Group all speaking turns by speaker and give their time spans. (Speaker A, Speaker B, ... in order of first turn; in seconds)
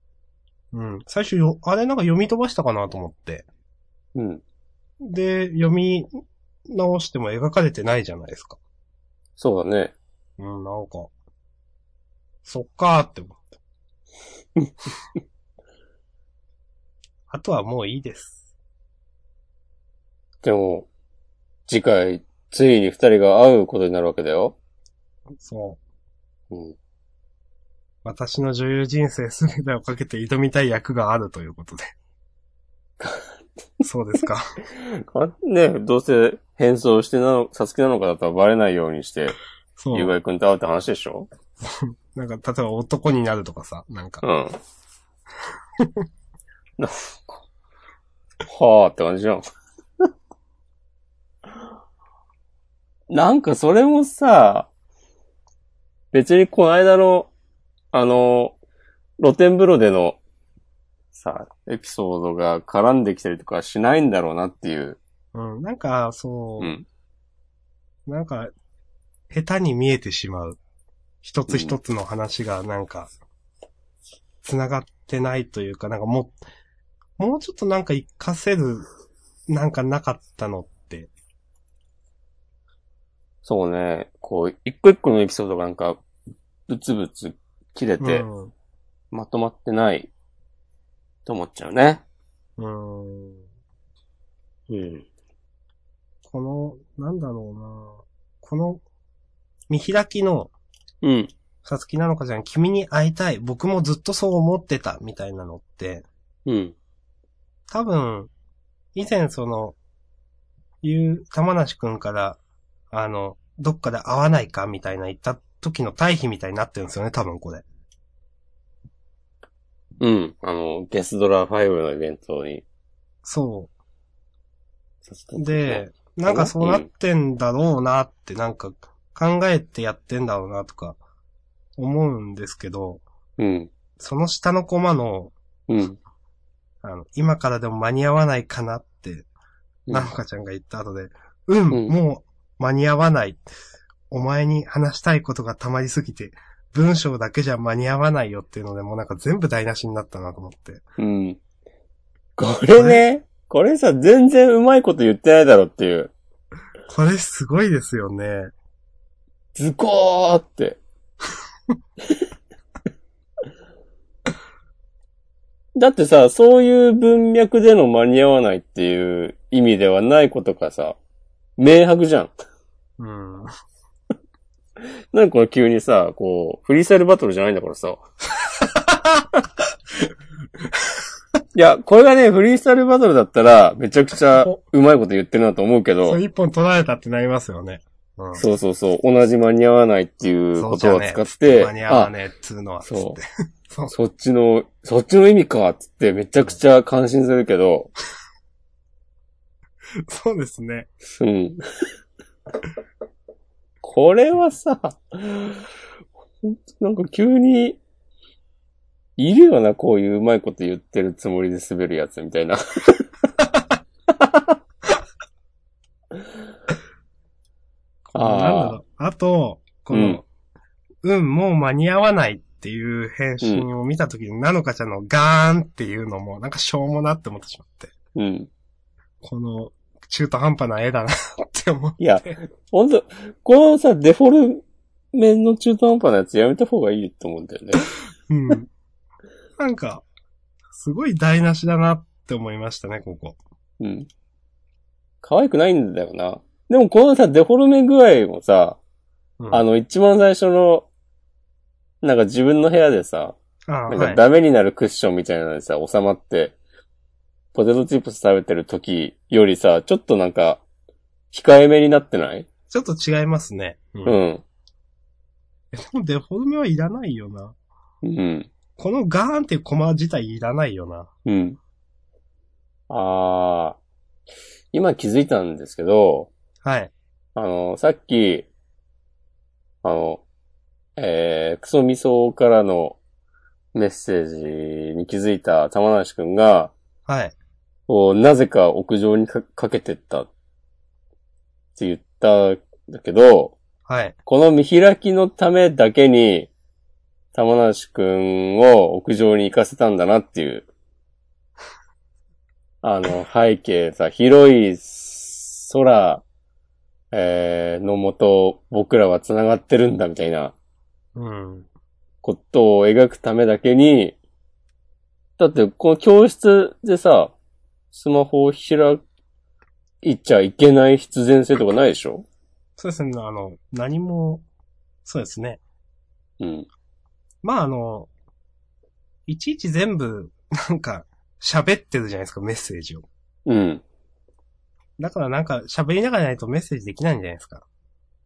Speaker A: 0.7-3.5, 5.0-6.1, 6.7-8.6, 10.4-11.1, 12.4-13.4, 17.3-18.4, 25.4-25.8, 28.0-31.9, 33.8-34.5, 39.8-40.1, 41.6-44.2, 45.8-46.0, 65.3-66.7, 68.1-68.5, 69.3-70.6, 71.2-73.1, 74.4-76.4, 77.2-78.9, 79.5-81.1, 88.0-88.5, 92.6-93.4, 96.2-98.8, 99.7-100.5, 101.6-106.0, 107.7-108.3, 108.9-109.8, 110.8-112.4, 112.9-117.6, 123.2-123.7, 125.4-131.0, 131.8-133.0, 134.0-135.3, 136.8-139.3, 139.9-143.4, 144.1-150.8, 152.8-153.0, 156.9-158.5, 173.0-173.5, 178.4-179.3, 180.7-181.0, 186.1-188.4, 190.6-193.9, 200.1-200.9, 218.1-220.2, 221.0-227.9, 229.2-232.3, 238.3-238.7, 239.6-240.0, 240.7-243.4, 253.7-254.2, 262.7-264.1, 265.7-267.6, 268.8-271.1, 276.6-276.9, 287.1-287.3, 293.9-294.1, 311.1-311.7, 322.8-324.4, 325.0-325.6, 327.4-328.1, 329.3-333.1, 335.0-337.6
Speaker B: 4.1-4.4, 9.4-9.9, 20.4-20.9, 21.7-24.5, 26.5-26.8, 33.0-33.2, 34.7-39.4, 39.9-41.3, 44.2-44.6, 46.8-47.3, 48.5-49.4, 53.1-54.7, 56.1-57.3, 57.9-58.5, 59.2-60.2, 61.1-65.0, 66.6-66.8, 71.5-71.8, 83.4-86.0, 86.7-88.2, 89.1-90.1, 91.2-92.0, 94.7-95.0, 101.0-101.3, 106.5-106.7, 120.0-122.6, 125.1-126.9, 133.4-133.7, 135.7-136.0, 151.0-151.4, 152.4-156.1, 159.6-160.8, 165.7-171.0, 171.6-172.3, 175.1-178.0, 181.5-186.2, 188.3-192.1, 192.8-193.2, 193.9-197.9, 201.0-201.6, 203.8-205.7, 206.4-207.8, 209.2-213.0, 214.2-214.4, 218.1-218.8, 219.9-220.2, 228.1-228.5, 232.0-237.9, 243.8-244.1, 245.2-248.8, 249.5-250.9, 252.0-253.4, 253.9-256.6, 257.5-260.6, 261.3-262.5, 264.0-264.4, 268.0-268.5, 271.2-271.6, 272.9-273.8, 274.7-276.3, 277.3-278.5, 279.8-280.2, 281.0-283.0, 283.7-286.7, 287.9-290.3, 291.8-293.6, 294.2-296.5, 297.3-300.7, 302.8-306.2, 307.1-310.5, 312.2-314.1, 315.4-317.3, 317.9-319.0, 320.0-322.2, 326.4-326.7, 333.4-333.8